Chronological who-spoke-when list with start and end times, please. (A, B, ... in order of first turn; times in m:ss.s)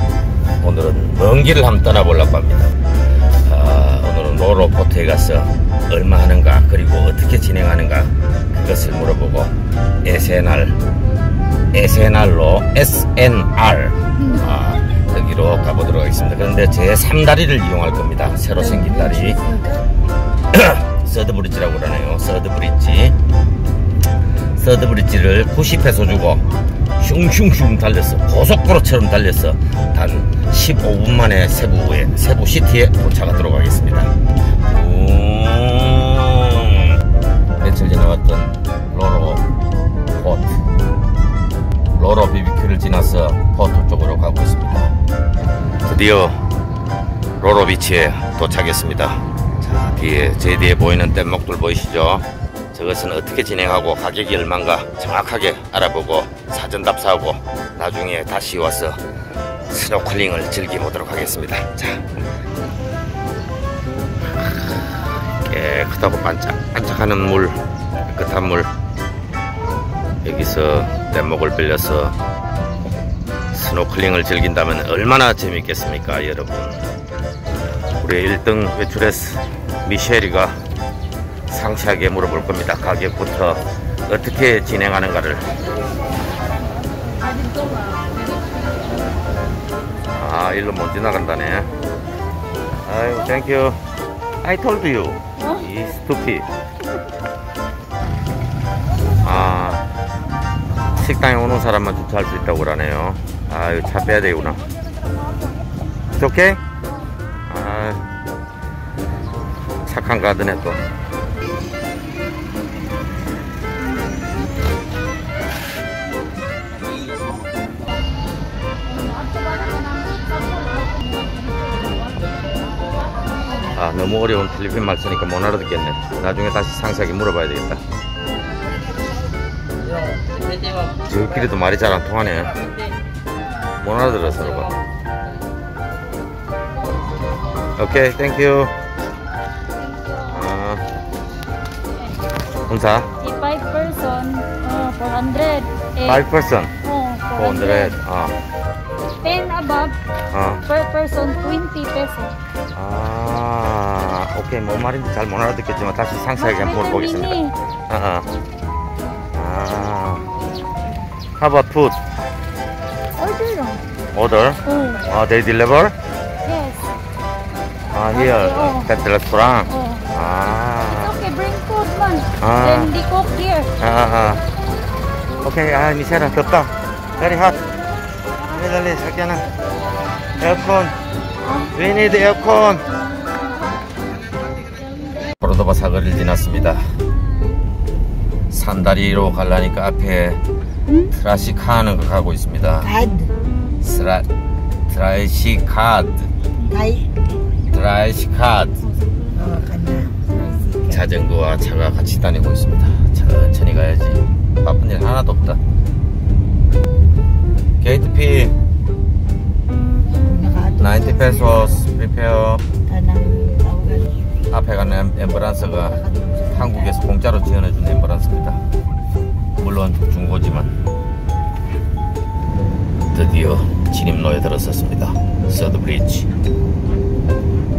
0:00.6-0:02.8 A
0:03.4-0:10.8 A
0:11.7-0:19.6 A
0:19.3-0:19.8 B
0:20.5-0:23.2 A
0:24.6-0:26.5 A
0:27.0-0:34.1 A
0:34.7-0:37.0 A
0:37.6-0:39.4 A
0:40.1-0:40.6 A
0:42.0-0:44.9 A
0:45.8-0:46.4 A
0:47.4-0:59.0 A
0:59.7-1:02.1 A
1:04.4-1:04.9 A
1:05.4-1:08.7 A
1:10.2-1:12.2 A
1:13.5-1:16.9 A
1:18.0-1:20.6 A
1:21.5-1:25.5 A
1:30.1-1:31.7 A
1:32.8-1:33.8 A
1:34.4-1:36.5 A
1:39.2-1:39.8 A
1:41.0-1:44.6 A
1:46.2-1:46.6 A
1:47.5-1:48.0 A
1:49.8-1:50.8 A
2:03.7-2:07.8 A
2:11.0-2:12.6 A
2:13.8-2:14.8 A
2:17.8-2:18.7 A
2:20.3-2:20.9 A
2:22.7-2:23.1 A
2:23.2-2:26.2 C
2:26.0-2:26.7 A
2:26.8-2:27.9 C
2:27.4-2:28.4 A
2:29.2-2:30.0 C
2:30.3-2:30.6 A
2:30.7-2:32.3 C
2:32.7-2:38.3 A
2:36.4-2:37.5 C
2:39.4-2:40.3 A
2:41.4-2:42.0 A
2:43.2-2:43.8 C
2:44.1-2:46.0 A
2:44.7-2:45.0 C
2:46.4-2:46.9 C
2:47.9-2:51.2 A
2:48.1-2:48.9 C
2:49.7-2:50.1 C
2:50.9-2:53.7 C
2:52.4-2:53.0 A
2:53.8-2:54.4 A
2:55.4-2:57.6 A
2:58.4-2:59.5 A
3:00.4-3:01.0 A
3:01.6-3:02.9 A
3:05.4-3:07.0 A
3:08.5-3:10.4 A
3:11.1-3:12.9 A
3:12.8-3:13.3 B
3:13.8-3:14.3 A
3:14.9-3:16.3 A
3:16.7-3:17.1 B
3:17.7-3:18.8 A
3:19.3-3:21.0 B
3:20.9-3:25.6 A
3:27.8-3:28.6 A
3:30.2-3:31.8 B
3:30.8-3:32.6 A
3:32.9-3:34.3 B
3:34.5-3:36.0 A
3:35.8-3:36.9 B
3:36.5-3:38.6 A
3:39.6-3:40.7 A
3:43.1-3:46.3 A